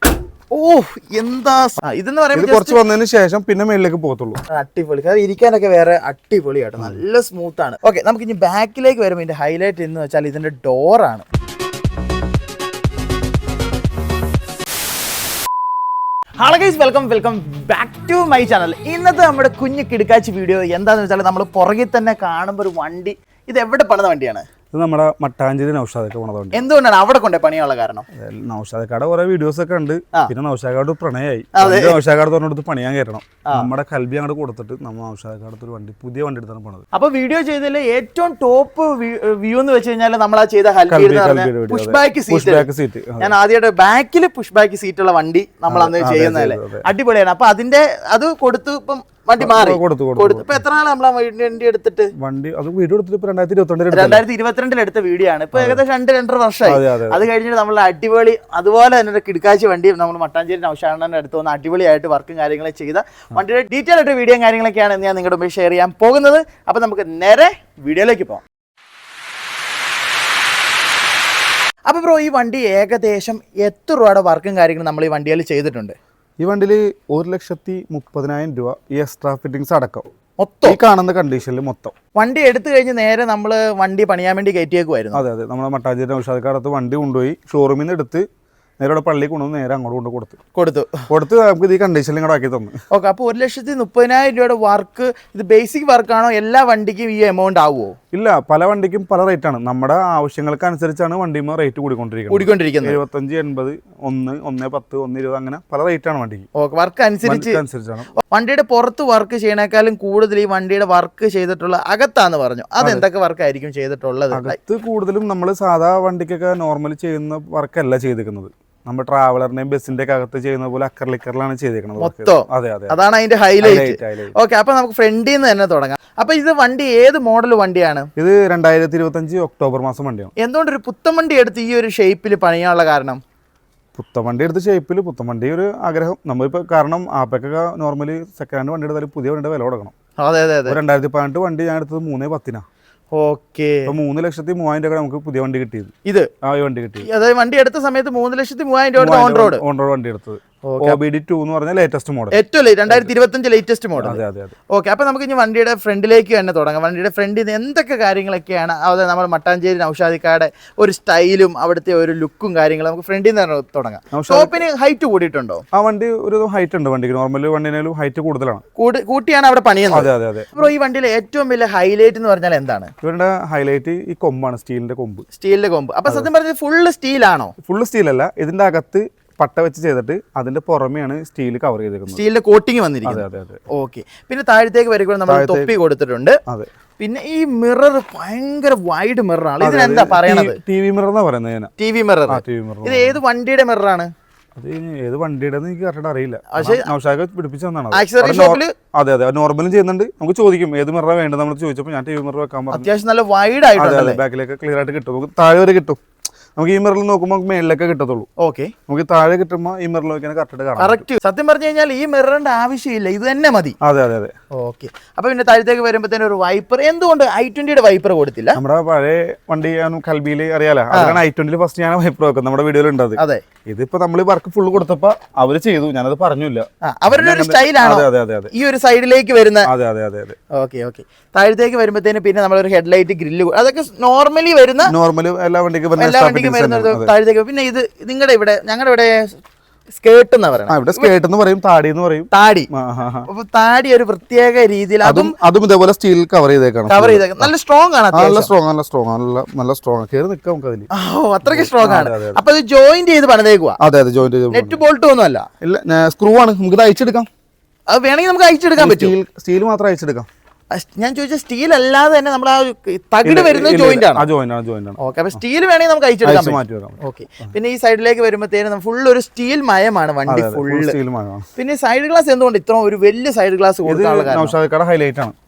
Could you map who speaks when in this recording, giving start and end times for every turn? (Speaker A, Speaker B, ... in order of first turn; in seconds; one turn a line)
Speaker A: 0.5-2.8
Speaker B: 2.3-4.4
Speaker A: 4.5-11.3
Speaker A: 16.4-24.5
Speaker B: 24.7-26.6
Speaker A: 26.5-28.1
Speaker B: 28.1-36.9
Speaker A: 31.5-32.0
Speaker A: 36.9-42.7
Speaker B: 40.9-43.3
Speaker A: 43.2-52.1
Speaker B: 45.7-46.9
Speaker B: 49.4-50.6
Speaker B: 52.2-54.2
Speaker A: 53.9-68.4
Speaker B: 55.5-55.8
Speaker B: 56.7-57.2
Speaker A: 71.9-76.0
Speaker B: 76.4-80.1
Speaker A: 80.4-80.8
Speaker B: 80.7-81.9
Speaker A: 82.2-85.2
Speaker B: 85.1-88.2
Speaker B: 88.8-90.4
Speaker A: 90.5-91.1
Speaker B: 91.1-92.8
Speaker A: 92.9-98.0
Speaker B: 98.1-106.5
Speaker A: 102.3-103.0
Speaker A: 106.5-107.6
Speaker B: 107.2-108.1
Speaker A: 108.2-114.6
Speaker B: 112.8-113.0
Speaker B: 114.3-123.0
Speaker A: 122.0-128.1
Speaker B: 123.6-124.3
Speaker B: 128.2-130.3
Speaker A: 130.4-133.2
Speaker B: 134.0-139.9
Speaker A: 140.2-140.8
Speaker B: 140.7-142.7
Speaker A: 143.1-143.9
Speaker B: 143.9-147.1
Speaker A: 147.0-149.6
Speaker B: 149.0-152.4
Speaker A: 150.7-151.0
Speaker A: 152.3-165.6
Speaker B: 154.0-154.6
Speaker B: 164.1-164.6
Speaker B: 165.7-168.6
Speaker A: 168.8-172.9
Speaker B: 169.9-170.5
Speaker B: 173.0-175.3
Speaker A: 175.3-177.5
Speaker B: 177.6-182.2
Speaker A: 182.1-186.4
Speaker B: 183.1-183.6
Speaker B: 185.3-185.7
Speaker A: 187.0-190.6
Speaker B: 189.6-191.7
Speaker A: 191.8-194.1
Speaker B: 192.3-193.2
Speaker B: 194.6-202.9
Speaker A: 196.5-196.9
Speaker A: 197.9-198.7
Speaker A: 202.7-204.2
Speaker B: 203.8-206.0
Speaker B: 206.6-208.3
Speaker A: 208.4-208.7
Speaker B: 208.9-211.0
Speaker A: 210.8-213.8
Speaker B: 213.8-214.3
Speaker A: 214.5-218.6
Speaker B: 218.6-228.5
Speaker A: 220.9-221.2
Speaker A: 223.2-223.4
Speaker A: 226.8-229.7
Speaker B: 229.7-230.4
Speaker A: 230.5-234.9
Speaker B: 234.9-237.1
Speaker A: 236.0-239.4
Speaker A: 239.9-241.1
Speaker B: 240.7-243.3
Speaker A: 242.3-242.7
Speaker A: 243.3-245.3
Speaker B: 245.0-247.5
Speaker A: 246.9-248.5
Speaker B: 248.1-250.9
Speaker A: 250.9-253.8
Speaker B: 251.4-252.4
Speaker B: 253.8-254.8
Speaker A: 254.5-255.5
Speaker B: 255.6-257.3
Speaker A: 257.9-259.1
Speaker B: 258.8-260.3
Speaker A: 260.7-264.3
Speaker B: 263.2-265.0
Speaker A: 265.0-271.0
Speaker B: 266.2-267.5
Speaker B: 270.3-271.5
Speaker A: 271.6-274.6
Speaker B: 273.9-275.4